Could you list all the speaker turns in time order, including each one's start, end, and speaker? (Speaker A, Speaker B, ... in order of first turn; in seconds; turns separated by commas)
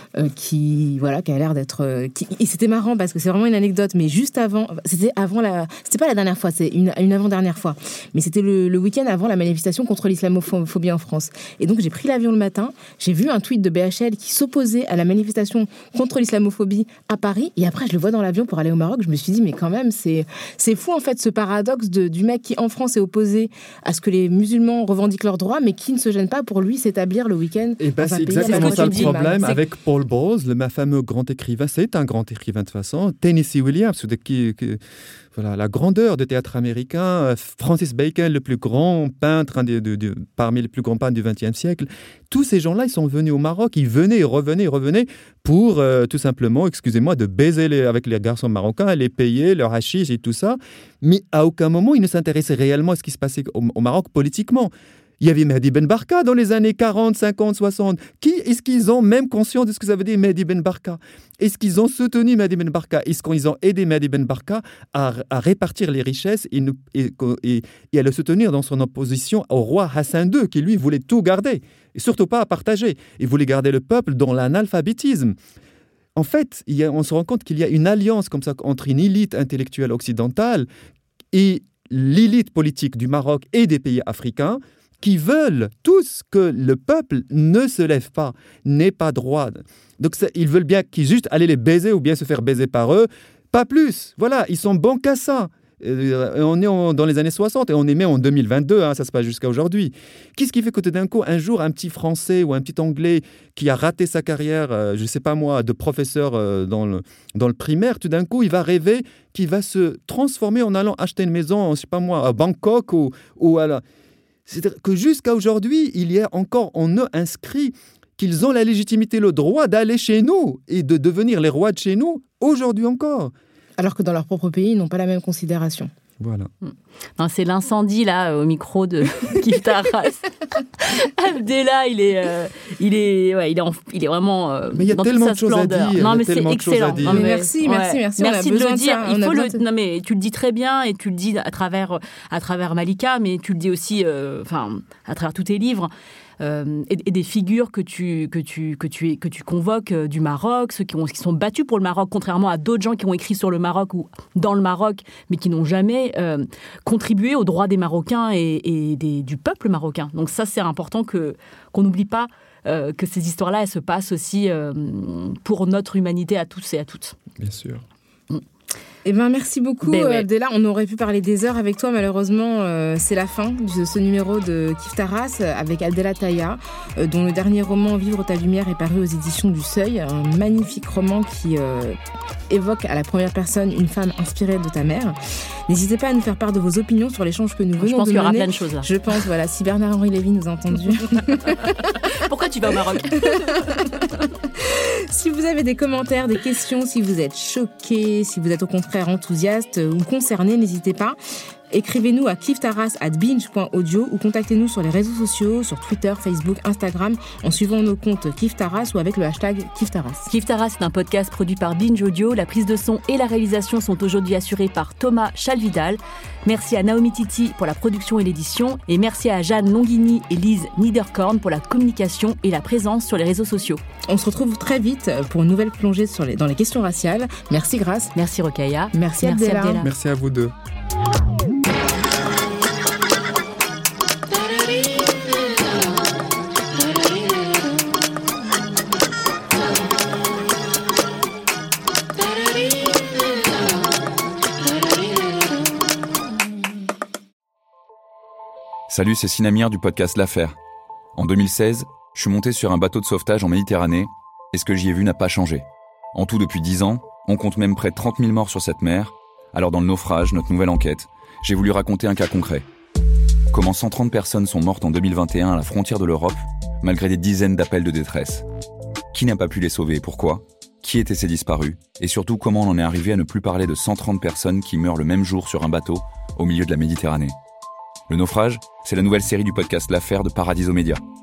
Speaker A: 0.1-29.5, Speaker B: 27.8-34.8, Speaker C: 28.4-29.6, Speaker B: 35.3-75.3, Speaker B: 76.1-80.7, Speaker B: 81.3-113.8, Speaker B: 114.5-123.3, Speaker A: 123.8-125.9, Speaker B: 126.2-126.5, Speaker C: 126.6-167.2, Speaker B: 134.7-137.3, Speaker A: 137.1-139.6, Speaker B: 167.4-167.8, Speaker A: 169.0-182.0, Speaker C: 169.8-170.3, Speaker A: 182.5-191.9, Speaker C: 187.8-188.9, Speaker C: 191.8-194.1, Speaker A: 193.2-194.0, Speaker A: 194.6-201.2, Speaker A: 201.7-210.3, Speaker C: 210.3-223.8, Speaker A: 224.1-228.1, Speaker C: 228.1-229.9, Speaker A: 228.9-229.8, Speaker B: 229.8-230.5, Speaker D: 248.9-250.6, Speaker D: 251.1-262.6, Speaker D: 263.5-268.4, Speaker D: 269.1-277.4, Speaker D: 278.1-281.0